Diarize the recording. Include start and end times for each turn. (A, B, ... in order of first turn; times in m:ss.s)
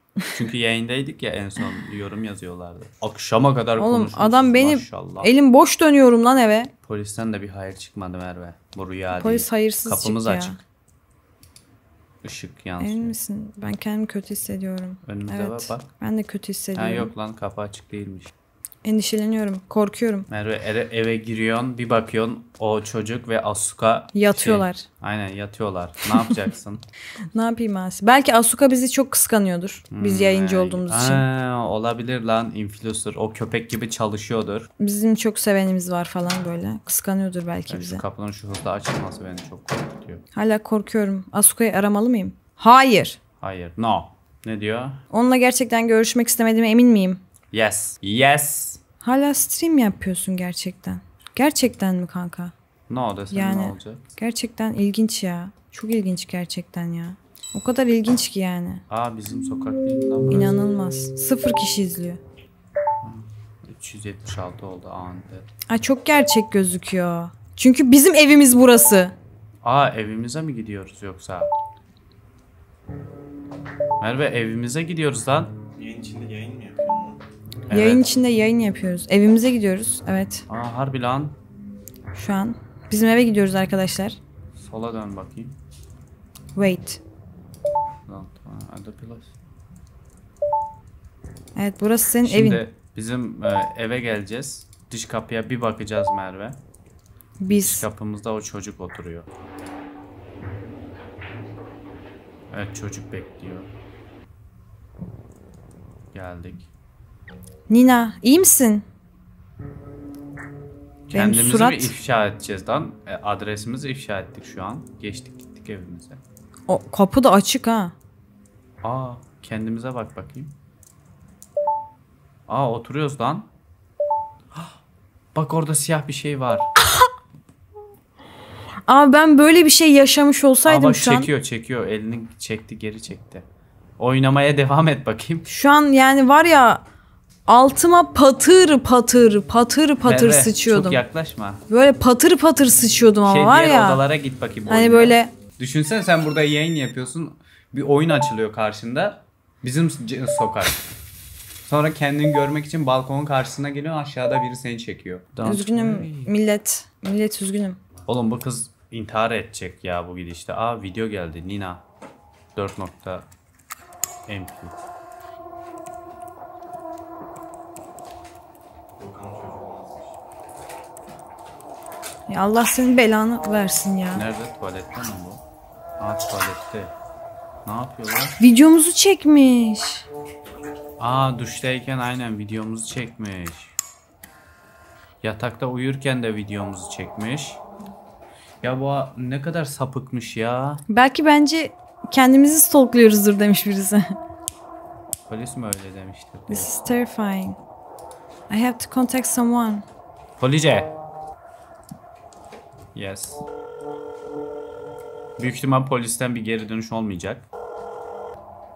0:00.3-0:05.3 A
0:03.8-0:06.7 B
0:06.8-0:10.6 A
0:09.1-0:10.6 B
0:12.2-0:13.2 A
0:12.8-0:17.1 B
0:15.0-0:15.9 A
0:16.8-0:18.3 A
0:18.8-0:20.3 B
0:20.3-0:26.8 A
0:24.1-0:24.9 B
0:27.3-0:31.2 B
0:29.9-0:34.7 A
0:34.8-0:38.0 B
0:37.7-0:40.2 A
0:40.3-0:43.2 B
0:43.4-0:45.0 A
0:45.1-0:47.2 B
0:47.5-0:48.8 A
0:49.0-0:52.5 B
0:52.9-0:54.0 A
0:53.3-0:58.8 B
0:58.9-1:00.6 A
1:00.3-1:02.2 B
1:03.0-1:05.5 A
1:05.7-1:09.2 B
1:09.6-1:11.5 A
1:14.0-1:15.6 A
1:15.8-1:17.2 C
1:17.7-1:18.2 A
1:17.7-1:20.4 B
1:20.5-1:21.4 A
1:22.1-1:24.2 B
1:24.6-1:25.6 A
1:26.6-1:27.0 B
1:28.1-1:29.3 A
1:31.6-1:32.6 B
1:32.2-1:36.6 A
1:37.4-1:37.9 B
1:37.5-1:39.3 A
1:42.5-1:43.7 A
1:46.1-1:46.7 A
1:47.7-1:48.8 B
1:51.1-1:56.2 A
1:51.1-1:51.9 B
1:56.7-1:57.9 B
1:58.8-2:00.5 A
2:02.5-2:03.5 A
2:05.4-2:06.7 A
2:08.9-2:11.3 B
2:10.7-2:13.4 A
2:14.0-2:15.5 A
2:15.5-2:16.8 B
2:17.5-2:21.0 B
2:20.0-2:21.6 A
2:21.7-2:24.0 B
2:23.2-2:30.8 A
2:24.7-2:25.3 B
2:31.7-2:36.3 A
2:35.4-2:37.8 B
2:38.1-2:41.8 A
2:42.6-2:43.3 A
2:44.3-2:44.8 A
2:49.0-2:50.2 C
2:52.3-2:54.2 B
2:54.1-2:55.4 A
2:56.0-2:56.9 A
2:57.6-2:58.4 A
2:58.4-3:00.1 B
3:01.0-3:03.7 A
3:05.2-3:07.6 A
3:08.6-3:10.8 A
3:10.9-3:14.1 B
3:15.3-3:17.0 A
3:16.5-3:17.6 B
3:18.5-3:19.8 B
3:20.4-3:20.9 A
3:23.0-3:23.4 A
3:25.4-3:27.5 A